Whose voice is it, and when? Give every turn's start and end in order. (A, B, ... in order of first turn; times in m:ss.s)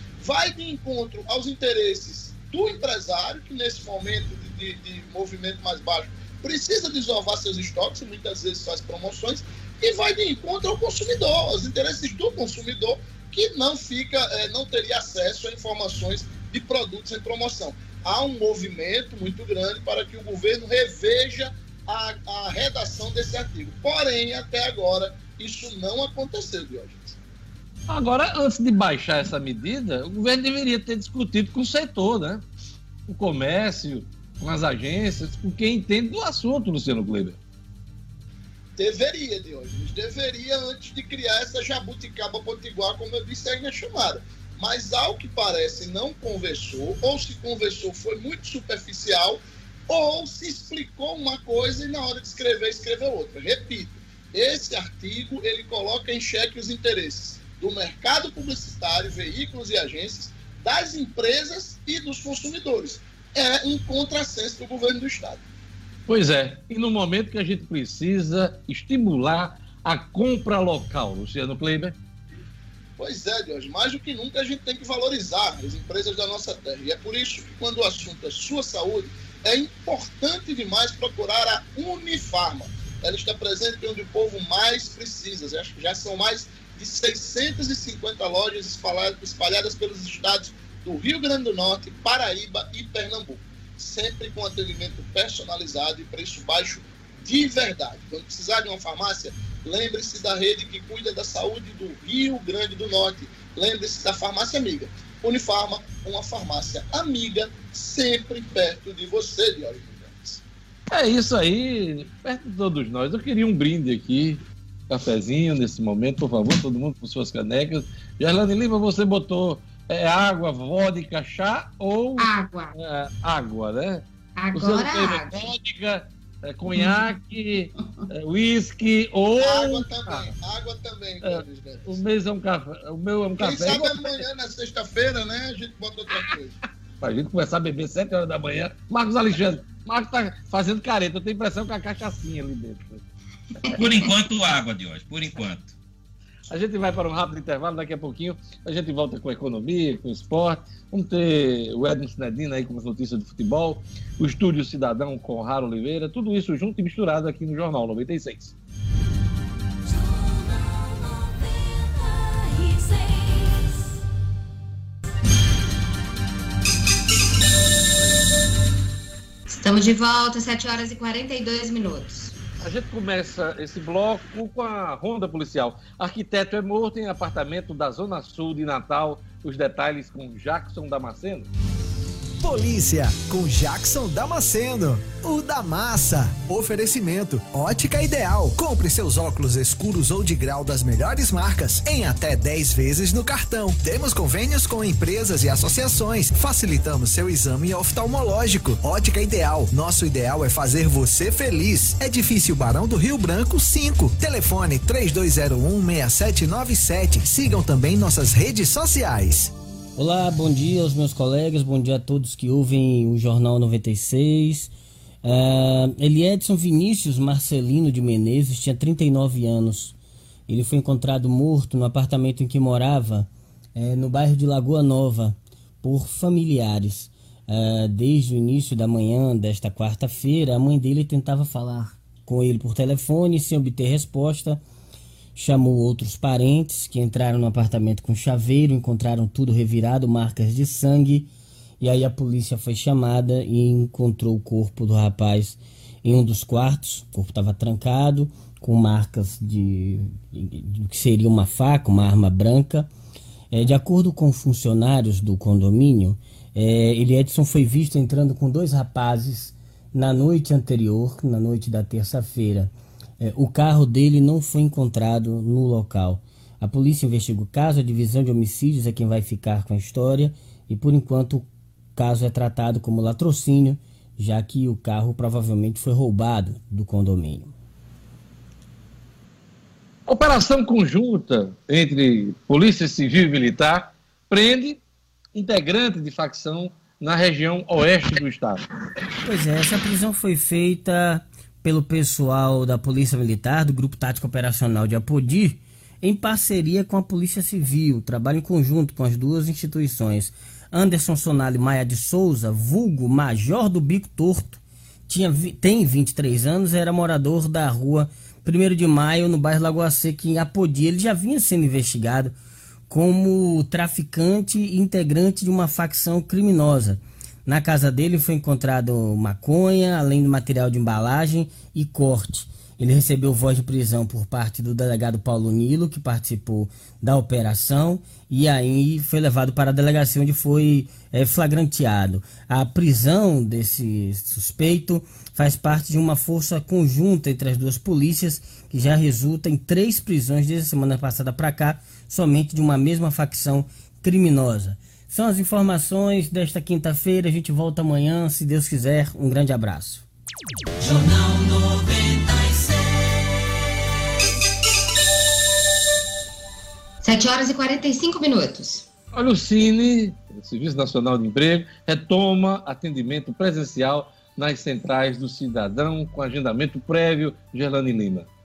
0:00.2-0:27.2 A
0:27.9-0:32.4 B
0:33.1-0:37.4 B
0:38.8-1:05.4 A
1:06.1-1:12.0 B
1:13.0-1:50.4 A
1:50.9-2:10.3 B
2:02.2-2:02.7 C
2:04.4-2:05.3 C
2:09.4-2:12.0 A
2:11.2-2:14.2 B
2:13.4-2:16.6 A
2:17.0-2:23.0 B
2:23.7-2:25.7 D
2:26.5-2:38.5 B
2:49.5-2:52.3 C
2:52.6-3:01.5 B
3:02.4-3:29.5 E
3:30.0-3:34.7 F
3:35.2-3:39.9 F
3:40.5-3:54.6 F
3:55.4-4:01.3 F
4:01.8-4:12.9 F
4:13.5-4:37.5 F
4:40.1-4:44.8 B
4:45.3-4:48.6 B
4:49.2-5:12.4 F
5:12.9-5:50.0 F
5:57.0-5:58.8 C
5:59.1-6:08.3 B